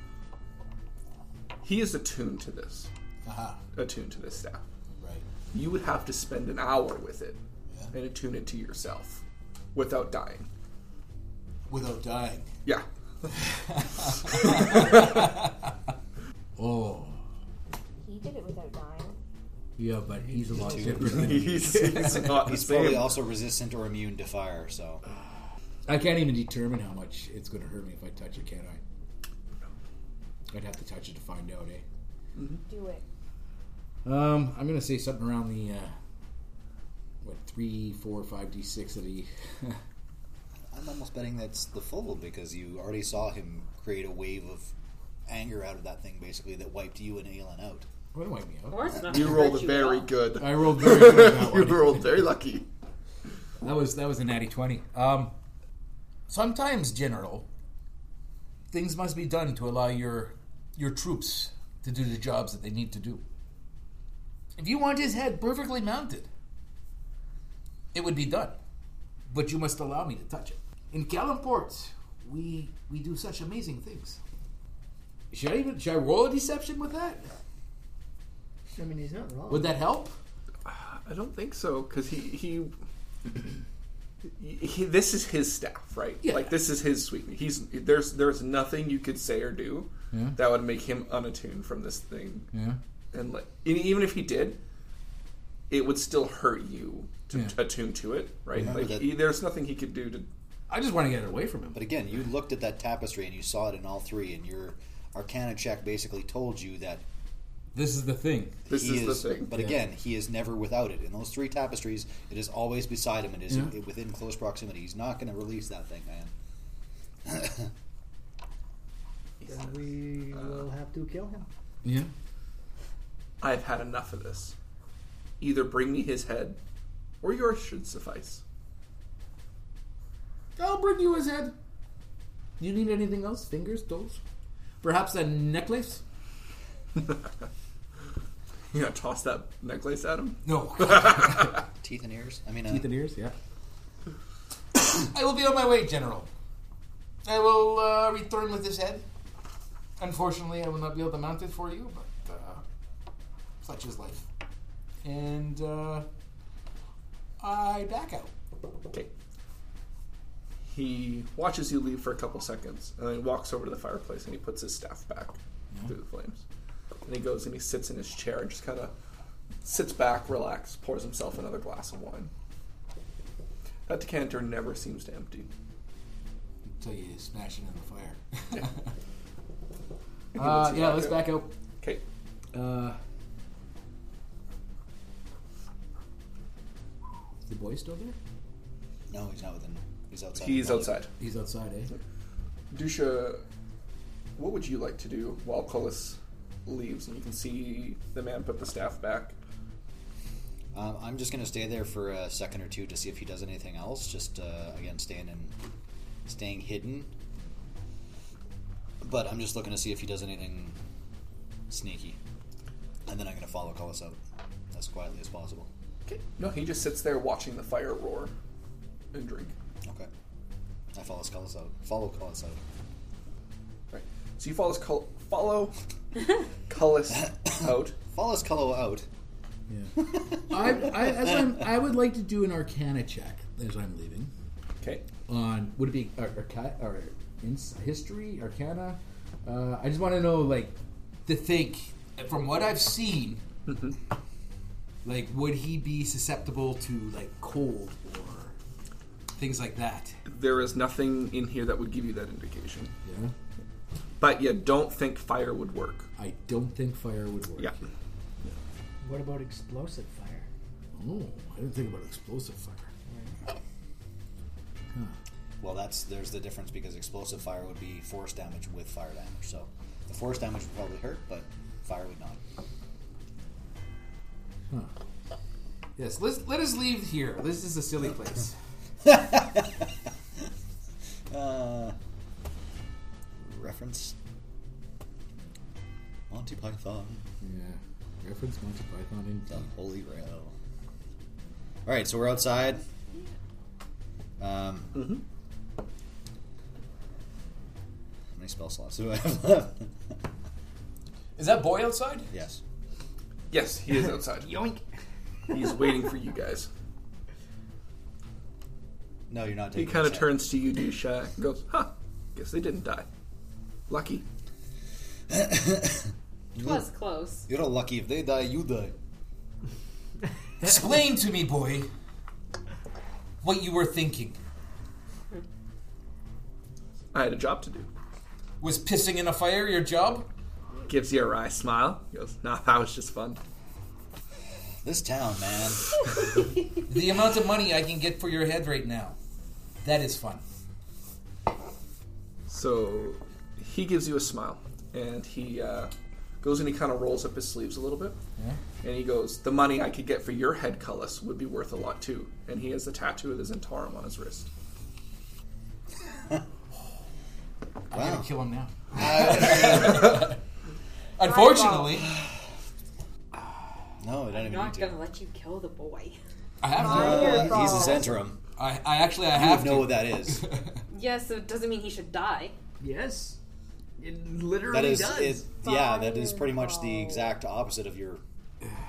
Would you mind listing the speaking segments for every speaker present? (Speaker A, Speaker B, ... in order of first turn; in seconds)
Speaker A: 1.6-2.9, 3.8-4.6, 5.5-7.4, 7.9-9.2, 9.7-10.5, 12.7-13.3, 14.3-14.9, 21.0-23.2, 32.4-32.6, 49.0-52.7, 80.7-82.7, 84.4-92.5, 93.1-94.6, 95.7-100.3, 108.7-109.5, 119.4-119.7, 120.3-120.6, 123.4-124.5, 125.4-126.6, 127.2-128.4, 138.7-141.5, 160.7-166.4, 167.1-168.9, 169.6-172.3, 173.9-175.5, 180.3-182.0, 190.4-191.1, 192.7-193.4, 194.4-199.3, 216.1-218.3, 219.1-219.5, 223.9-225.8, 226.7-227.9, 234.8-235.1, 243.7-244.0, 250.3-252.9, 254.2-256.1, 294.9-295.2, 303.5-304.6, 305.5-306.7, 309.8-313.1, 313.9-314.2, 327.1-327.9, 330.9-333.4, 342.5-348.2, 348.8-354.5
Speaker B: 3.3-3.6, 5.0-5.2, 11.7-12.5, 13.4-15.5, 16.6-17.2, 19.8-22.4, 25.9-28.8, 30.5-31.8, 34.0-35.9, 37.2-39.8, 48.1-48.8, 50.4-52.1, 53.6-55.3, 56.3-57.5, 58.7-63.2, 64.6-66.3, 67.9-68.6, 69.3-74.2, 75.3-77.3, 79.5-80.2, 86.2-86.6, 90.1-90.4, 92.5-92.8, 100.7-101.8, 107.7-108.6, 109.5-109.8, 121.8-122.1, 130.6-131.6, 132.6-134.2, 134.8-136.0, 140.4-141.6, 142.7-143.3, 144.9-146.3, 147.2-149.1, 150.0-152.6, 153.6-154.3, 155.0-156.1, 157.4-158.3, 176.7-178.9, 180.4-181.5, 182.5-183.0, 187.5-188.2, 191.2-191.9, 229.7-234.3, 235.3-243.4, 245.1-248.5, 249.4-250.2, 253.1-253.3, 256.2-257.8, 260.9-262.9, 276.0-278.6, 287.4-289.6, 301.4-302.3, 320.6-321.9, 323.4-324.4, 328.6-330.3, 336.9-339.2, 339.8-340.4, 357.9-360.4, 361.2-362.1, 366.6-368.0, 368.6-370.8
Speaker C: 18.0-19.2, 32.7-33.0, 361.2-362.1, 366.8-368.1, 375.6-377.3
Speaker D: 20.6-21.5, 22.4-25.0, 40.7-44.7, 45.3-47.9, 98.5-99.2, 101.7-107.0, 108.7-116.3, 117.2-117.7, 141.8-142.9, 189.1-191.0, 200.7-205.6, 206.3-207.1, 209.0-210.8, 211.7-212.2, 213.1-214.2, 214.7-215.7, 220.9-222.6, 227.7-229.1, 230.0-231.4, 265.6-272.4, 279.0-279.9, 281.3-282.0, 283.4-284.1, 286.3-287.2, 289.5-290.5, 291.9-292.8, 294.4-295.1, 298.4-299.9, 302.3-302.6, 309.3-310.4, 315.3-316.9, 317.5-318.9, 334.8-335.9, 357.9-358.3, 358.9-360.3, 364.0-365.0, 366.8-368.4, 369.3-370.5, 374.7-378.2
Speaker E: 48.7-50.2, 316.6-317.5, 364.3-366.2, 370.9-372.6
Speaker F: 78.7-79.8, 119.5-121.5, 259.0-260.5, 263.1-263.4, 304.4-304.8, 366.8-367.7, 372.8-373.4, 374.0-375.4